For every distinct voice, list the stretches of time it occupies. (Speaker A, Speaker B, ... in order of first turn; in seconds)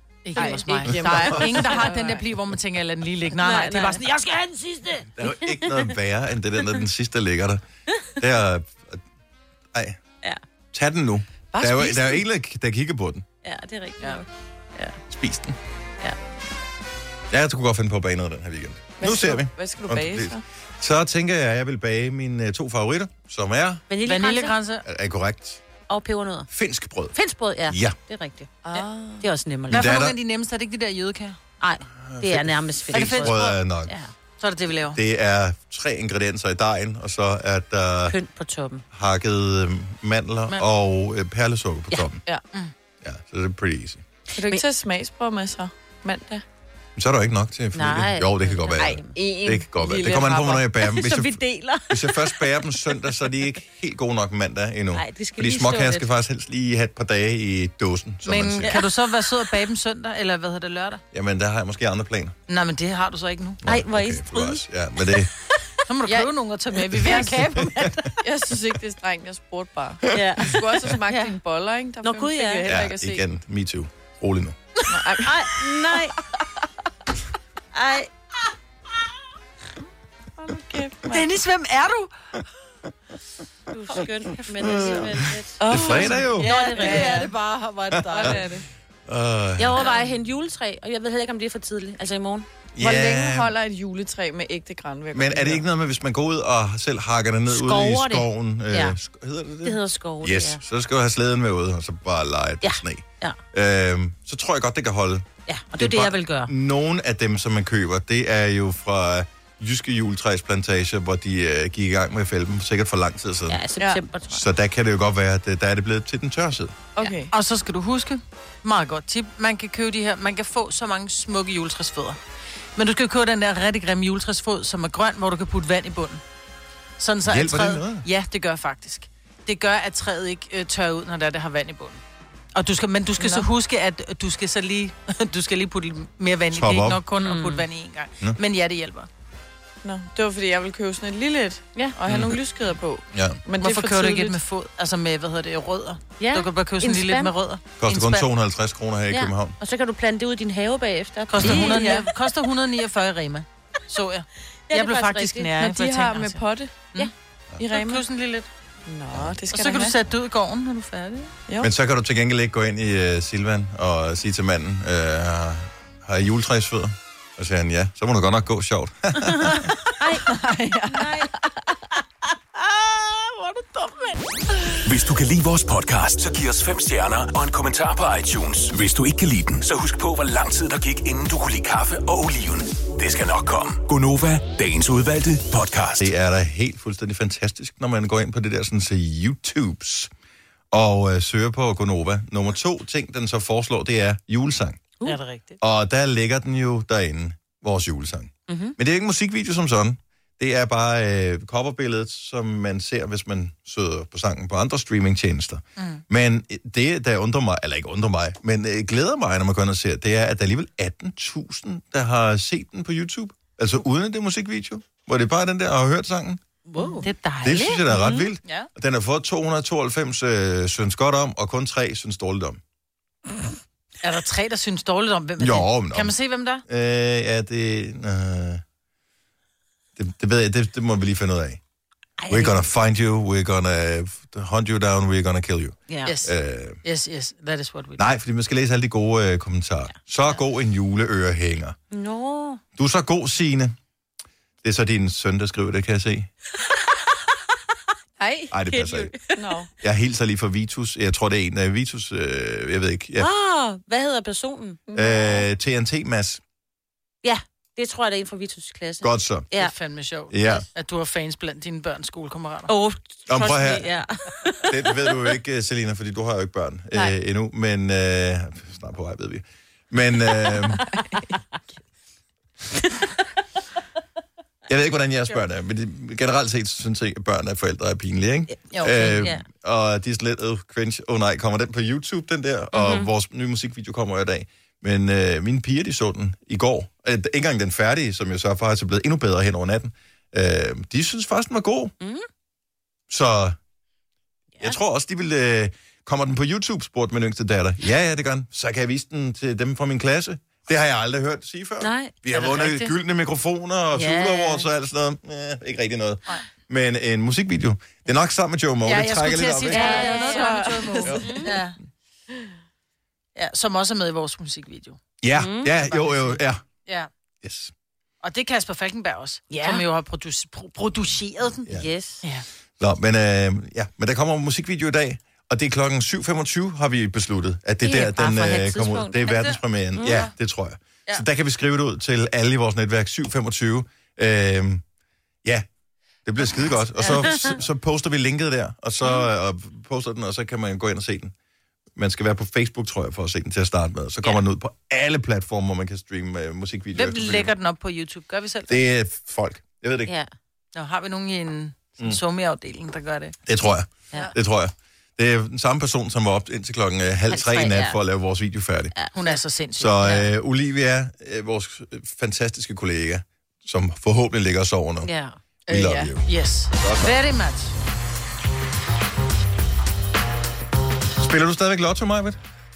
Speaker A: 0.2-4.2, 24.0-24.9, 29.7-31.4, 32.9-33.6, 34.4-35.0, 58.2-61.0, 62.5-63.6, 65.9-68.0, 81.1-82.1, 86.5-88.4, 117.3-122.2, 122.8-126.2, 127.0-132.0, 132.5-139.1, 143.5-148.3, 151.3-157.1, 157.7-158.5, 159.5-161.3, 195.0-195.6, 205.8-206.0, 217.0-217.8, 224.0-226.6, 236.0-238.0, 259.6-262.7, 302.3-302.9, 308.8-311.8, 313.4-315.0, 315.7-317.1, 318.2-321.7, 346.9-348.8, 350.7-353.3, 359.1-360.3, 366.2-367.7
Speaker B: 0.3-2.2, 11.5-12.2, 19.0-20.4, 28.6-29.3, 44.4-46.4, 48.8-50.6, 66.8-73.2, 74.9-76.0, 80.4-81.3, 85.6-87.4, 88.1-88.6, 92.8-95.7, 116.9-117.3, 133.2-133.5, 139.8-144.4, 155.5-156.9, 157.6-158.0, 158.8-159.9, 170.3-171.2, 248.2-248.5, 249.3-249.7, 254.9-255.4, 309.7-311.3, 365.7-366.1
Speaker C: 0.4-0.8, 1.5-1.8, 3.4-5.9, 13.4-15.0, 23.9-24.6, 25.9-26.5, 27.1-29.8, 31.6-34.1, 38.1-38.8, 47.7-49.2, 50.7-53.0, 54.9-56.1, 63.6-64.6, 70.1-71.3, 72.0-72.7, 75.1-76.2, 77.7-78.1, 83.7-87.3, 89.6-92.5, 97.5-99.0, 99.6-100.6, 102.6-103.4, 105.5-106.5, 113.5-114.4, 137.2-137.6, 146.2-147.3, 149.1-152.1, 154.7-155.6, 170.0-170.2, 170.9-171.3, 172.7-174.2, 198.5-198.8, 216.7-217.1, 217.8-218.3, 232.2-232.6, 235.9-236.1, 241.9-242.6, 248.7-249.5, 253.2-254.8, 257.2-259.7, 262.7-265.1, 270.5-270.9, 278.7-279.4, 282.7-283.1, 292.0-292.3, 301.8-302.5, 303.9-304.7, 309.7-311.6, 315.4-315.7, 319.5-319.8, 321.7-322.2, 327.8-330.3, 337.1-337.5, 357.3-358.0, 365.0-365.4
Speaker D: 0.9-1.6, 5.2-7.6, 8.2-9.0, 9.7-10.0, 10.7-13.2, 15.1-15.6, 17.3-23.8, 24.8-25.6, 26.5-27.1, 27.7-27.9, 29.7-30.1, 32.0-33.9, 34.9-38.1, 38.9-42.2, 43.0-44.0, 47.0-58.8, 61.1-62.4, 63.6-65.3, 72.7-74.6, 84.6-86.5, 87.9-88.4, 89.1-89.9, 92.8-93.5, 95.1-105.2, 105.8-113.6, 114.3-116.8, 127.2-128.0, 136.5-137.0, 142.1-142.4, 143.1-143.4, 147.8-149.6, 151.4-151.8, 161.6-169.7, 186.0-190.1, 190.7-194.9, 195.6-216.4, 217.4-222.6, 225.4-226.1, 226.7-228.6, 229.9-231.6, 232.3-236.8, 238.0-241.8, 242.8-243.7, 244.6-246.3, 248.5-249.1, 249.8-253.3, 254.9-256.4, 259.0-259.5, 260.3-260.6, 263.3-263.9, 264.7-270.8, 274.7-291.9, 293.1-293.6, 294.6-310.1, 315.2-316.6, 317.4-317.7, 322.8-334.8, 336.2-341.3, 341.9-347.5, 348.7-350.1, 353.4-358.9, 359.8-365.1, 365.7-366.2, 366.8-367.2, 371.2-372.4
Speaker E: 174.8-186.1